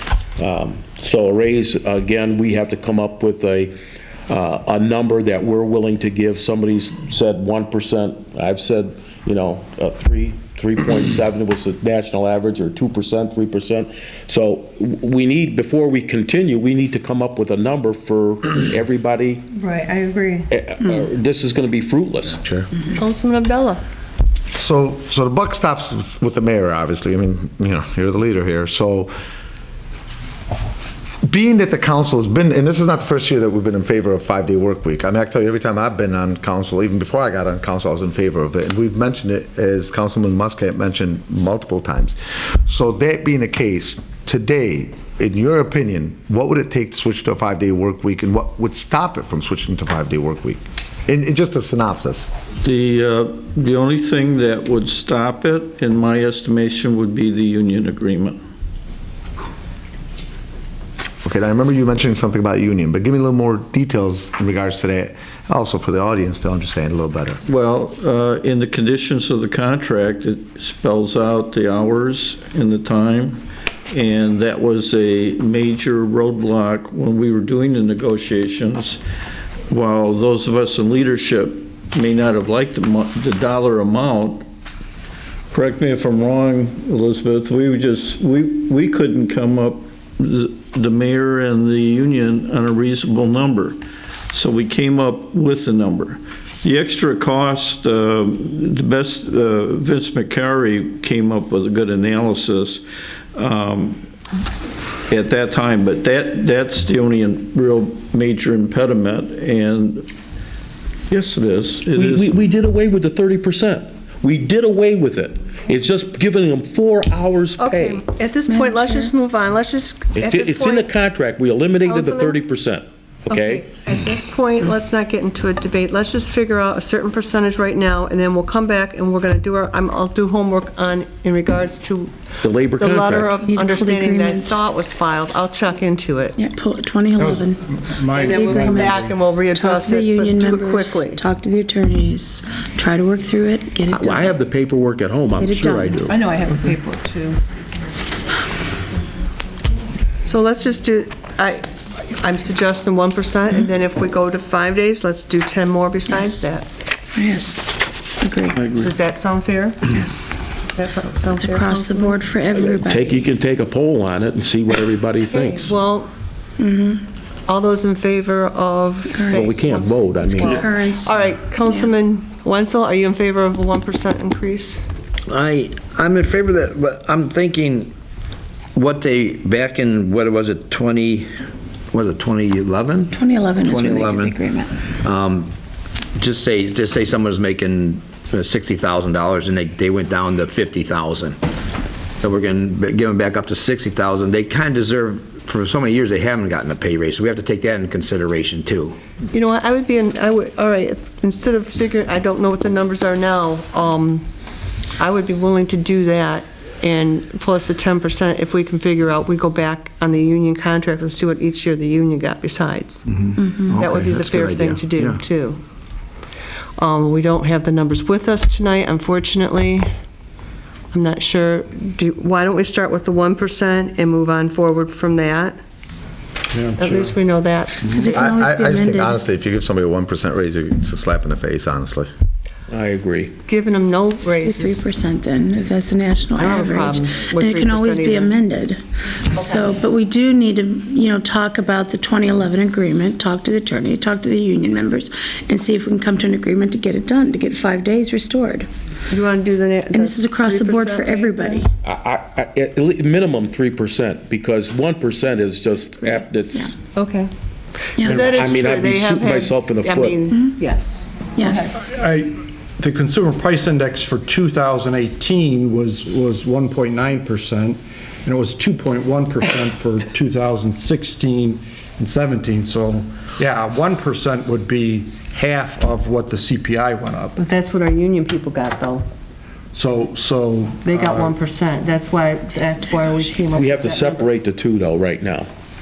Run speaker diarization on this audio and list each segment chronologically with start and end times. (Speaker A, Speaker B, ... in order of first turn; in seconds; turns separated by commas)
Speaker A: 0.4-3.7, Speaker A: 4.3-19.4, Speaker B: 19.5-20.5, Speaker A: 20.5-22.6, Speaker B: 22.9-23.8, Speaker C: 24.5-29.1, Speaker C: 31.0-52.3, Speaker D: 52.6-58.4, Speaker C: 61.2-67.4, Speaker D: 67.5-79.0, Speaker D: 79.7-84.4, Speaker D: 85.5-102.8, Speaker D: 103.3-104.0, Speaker D: 105.1-110.1, Speaker D: 111.1-112.3, Speaker A: 111.9-118.0, Speaker B: 117.6-120.9, Speaker E: 118.5-119.1, Speaker A: 120.1-123.7, Speaker B: 121.8-122.4, Speaker B: 123.3-132.1, Speaker A: 132.4-133.3, Speaker B: 132.8-136.4, Speaker E: 133.5-134.6, Speaker E: 136.3-137.6, Speaker F: 137.1-139.3, Speaker B: 138.1-141.2, Speaker E: 138.3-138.9, Speaker E: 139.5-144.3, Speaker A: 143.9-146.2, Speaker E: 145.4-146.0, Speaker B: 146.0-147.4, Speaker B: 150.2-156.7, Speaker E: 157.2-158.6, Speaker D: 158.6-158.8, Speaker B: 158.7-159.9, Speaker E: 159.9-160.4, Speaker B: 160.6-162.2, Speaker E: 161.3-163.2, Speaker A: 162.6-165.7, Speaker B: 165.3-166.1, Speaker E: 166.6-167.0, Speaker B: 167.5-174.8, Speaker E: 169.1-169.5, Speaker A: 169.2-170.7, Speaker E: 170.2-171.9, Speaker G: 175.3-177.9, Speaker G: 178.7-181.3, Speaker G: 181.9-185.5, Speaker E: 183.1-184.7, Speaker G: 186.2-191.4, Speaker G: 192.2-199.0, Speaker B: 199.3-204.2, Speaker B: 205.0-213.1, Speaker G: 213.1-215.2, Speaker B: 213.7-215.6, Speaker B: 216.8-219.8, Speaker B: 220.9-225.6, Speaker F: 226.5-227.1, Speaker B: 226.8-228.1, Speaker E: 227.9-229.1, Speaker C: 228.0-232.1, Speaker A: 232.7-233.3, Speaker B: 233.5-234.8, Speaker E: 234.4-248.7, Speaker B: 236.4-238.4, Speaker B: 239.3-239.6, Speaker B: 249.1-251.6, Speaker E: 249.9-251.7, Speaker A: 251.8-256.7, Speaker B: 256.9-257.3, Speaker B: 258.0-261.9, Speaker A: 258.0-260.3, Speaker E: 260.3-260.6, Speaker E: 261.4-261.7, Speaker F: 261.8-277.4, Speaker B: 277.4-279.1, Speaker F: 279.7-281.3, Speaker B: 280.8-284.2, Speaker A: 283.5-285.5